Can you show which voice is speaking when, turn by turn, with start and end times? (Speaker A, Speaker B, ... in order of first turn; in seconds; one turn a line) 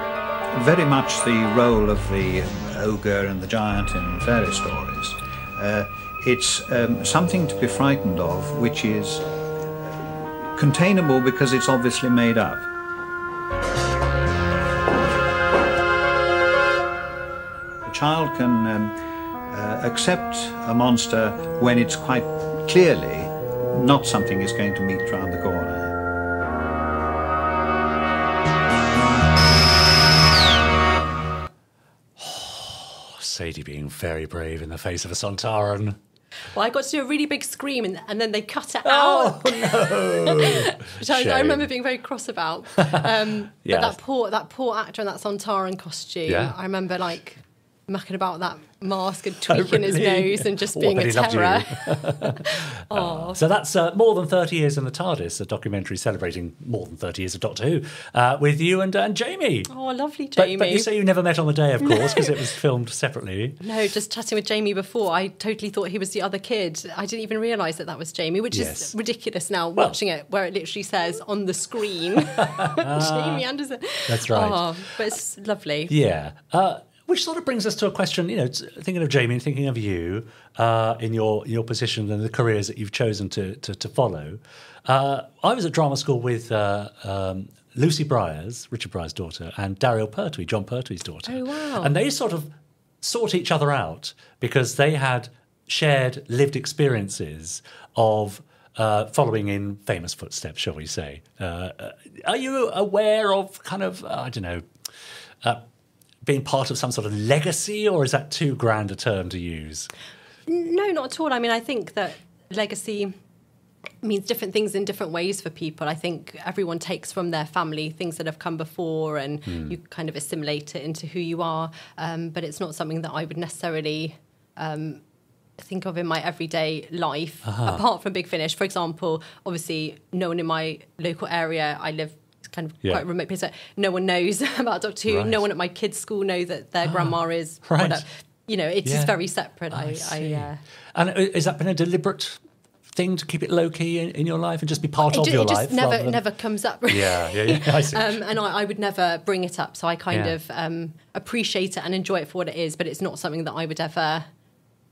Speaker A: 0.5-9.3
Speaker A: 10.5-12.7
Speaker A: 17.9-18.9
Speaker A: 19.5-25.9
Speaker B: 32.2-36.0
Speaker C: 36.5-53.4
Speaker B: 38.9-41.7
Speaker B: 42.8-43.0
Speaker B: 43.6-44.0
Speaker B: 46.3-46.5
Speaker B: 49.5-59.7
Speaker C: 59.7-60.9
Speaker B: 60.4-63.6
Speaker C: 61.9-62.3
Speaker C: 63.6-75.9
Speaker B: 68.5-68.9
Speaker B: 72.4-73.4
Speaker B: 74.1-74.7
Speaker B: 75.9-92.5
Speaker C: 91.3-91.9
Speaker B: 93.0-104.6
Speaker B: 106.2-109.9
Speaker C: 110.5-113.1
Speaker C: 114.0-125.0
Speaker B: 119.5-119.8
Speaker C: 125.6-140.6
Speaker B: 127.5-127.8
Speaker B: 135.1-135.4
Speaker B: 136.8-138.0
Speaker B: 138.8-139.2
Speaker B: 139.7-142.4
Speaker B: 142.9-146.2
Speaker C: 145.1-154.3
Speaker B: 146.9-148.2